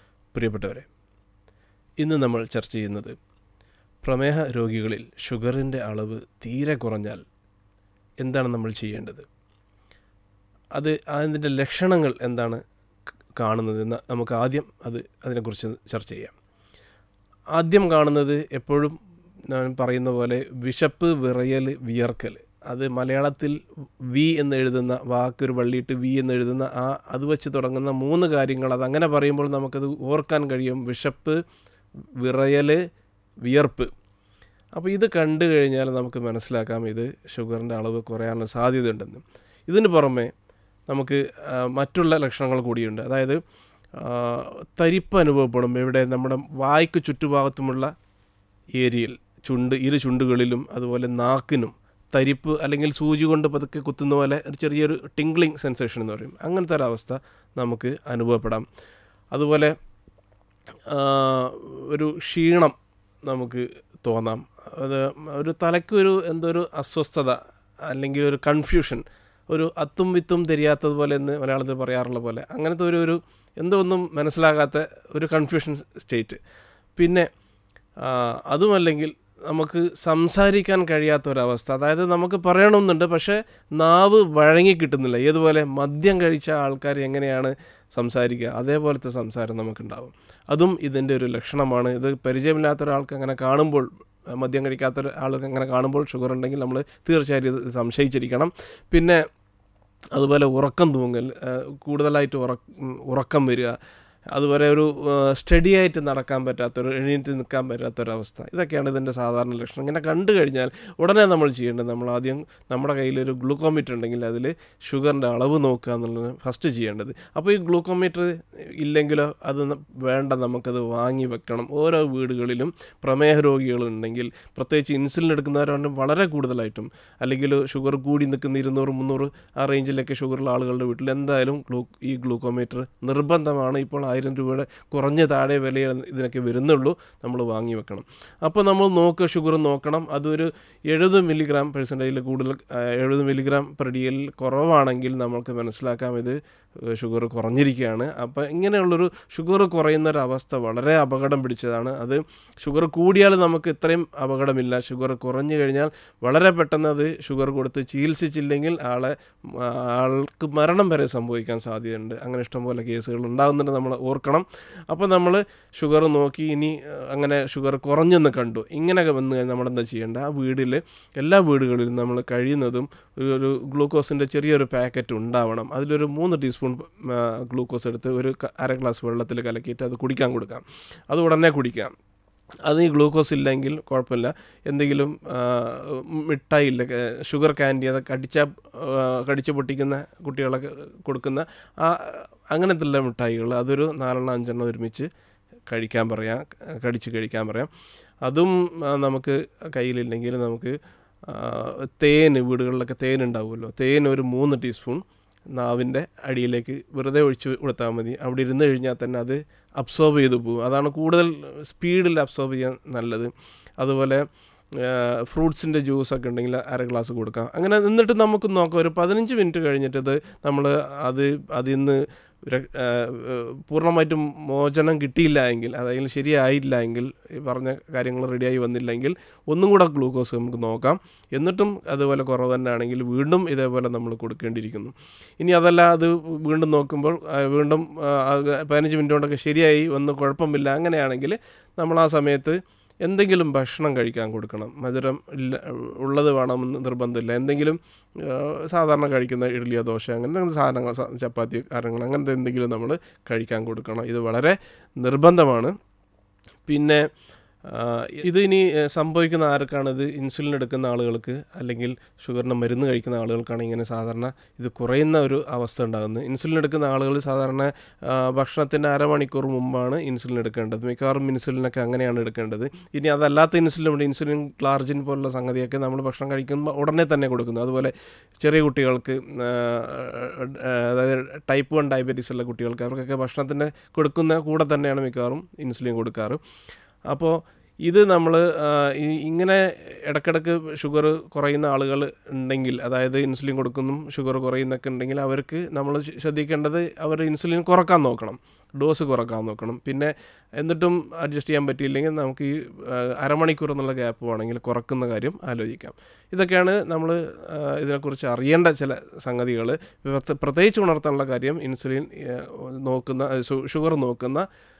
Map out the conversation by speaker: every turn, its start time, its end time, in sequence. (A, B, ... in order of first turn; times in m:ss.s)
0:00.3-0:00.9 A
0:02.0-0:03.2 A
0:04.0-0:07.2 A
0:08.2-0:09.3 A
0:10.8-0:12.6 A
0:13.4-0:16.3 A
0:17.6-0:19.0 A
0:19.5-0:23.6 A
0:24.1-0:31.4 A
0:32.2-0:32.8 A
0:33.4-0:33.9 A
0:34.8-0:40.3 A
0:40.9-0:43.4 A
0:44.0-0:47.9 A
0:48.8-0:58.6 A
0:59.3-0:59.7 A
1:00.9-1:16.4 A
1:17.0-1:17.3 A
1:18.0-1:39.2 A
1:40.1-1:43.8 A
1:44.3-3:01.9 A
3:02.6-3:15.1 A
3:15.7-3:17.7 A
3:18.2-4:15.7 A
4:16.6-4:17.0 A
4:17.6-4:46.4 A
4:47.1-5:14.5 A